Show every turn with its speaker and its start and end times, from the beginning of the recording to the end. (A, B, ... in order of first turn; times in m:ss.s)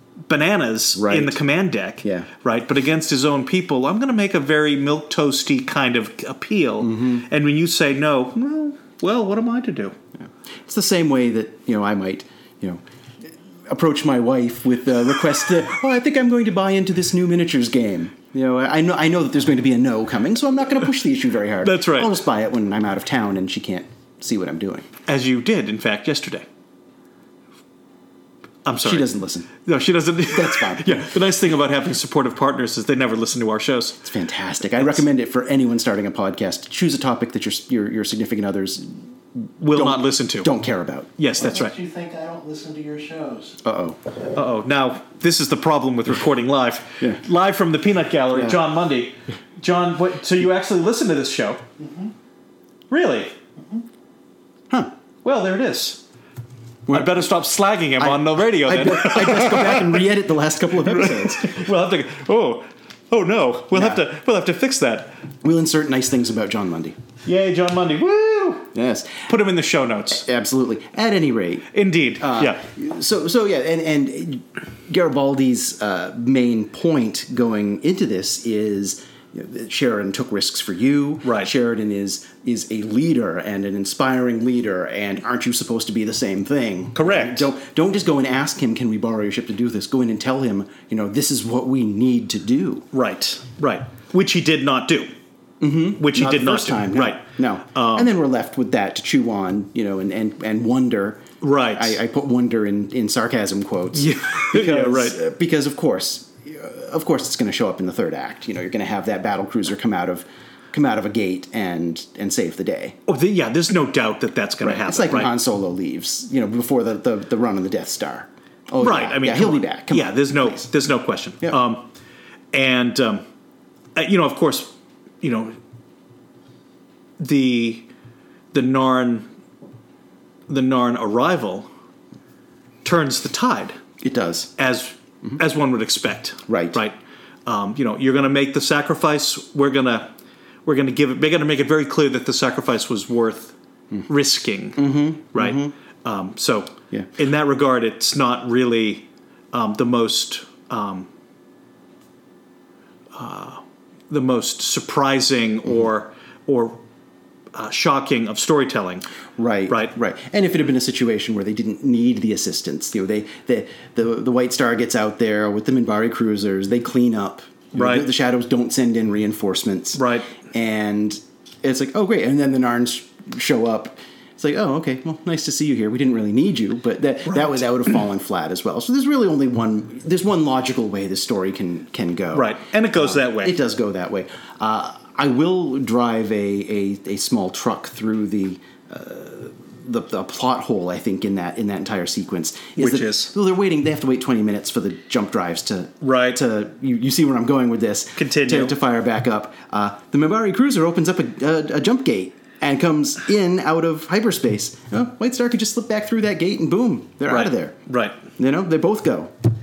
0:00.3-0:09.9 A
0:00.9-0:01.4 B
0:02.0-0:02.3 B
0:06.8-0:07.2 B
0:10.2-0:24.9 B
0:21.6-0:22.1 A
0:25.1-0:26.4 A
0:28.6-0:29.1 A
0:28.8-0:29.5 B
0:29.6-0:34.0 A
0:30.3-0:31.0 B
0:34.0-0:39.0 B
0:39.6-0:40.5 A
0:39.7-0:41.1 B
0:41.2-0:41.8 A
0:41.4-0:43.6 C
0:43.6-0:44.0 B
0:44.3-0:51.6 A
0:48.3-0:48.6 B
0:51.8-0:52.1 C
0:52.9-0:53.4 A
0:55.2-0:56.0 A
0:56.9-0:57.1 B
0:56.9-1:00.0 A
0:58.0-1:01.7 B
1:00.8-1:05.2 A
1:03.7-1:04.0 B
1:05.4-1:07.0 B
1:07.2-1:08.7 A
1:08.7-1:09.3 B
1:09.3-1:10.2 A
1:10.1-1:32.9 B
1:11.7-1:12.6 A
1:21.2-1:21.5 A
1:26.9-1:27.5 A
1:32.9-1:35.1 A
1:35.6-1:53.0 B
1:36.0-1:38.1 A
1:41.4-1:42.0 A
1:43.9-1:45.2 A
1:53.1-1:55.3 A
1:54.6-2:00.7 B
1:58.8-2:01.9 A
2:02.5-2:03.2 A
2:03.9-2:05.6 A
2:07.2-2:07.9 A
2:08.5-2:09.3 A
2:10.5-2:11.7 A
2:12.8-2:13.8 A
2:14.0-2:14.5 B
2:14.6-2:16.9 A
2:16.5-2:16.8 B
2:17.4-2:20.1 A
2:20.6-2:23.5 A
2:24.1-2:31.1 A
2:24.8-2:25.7 B
2:33.1-2:36.8 A
2:37.5-2:39.0 A
2:39.4-3:27.8 B
2:47.7-2:48.1 A
2:49.9-2:50.3 A
3:02.3-3:03.6 A
3:12.8-3:13.3 A
3:16.0-3:16.4 A
3:18.2-3:18.7 A
3:27.3-3:28.2 A
3:28.4-3:29.3 B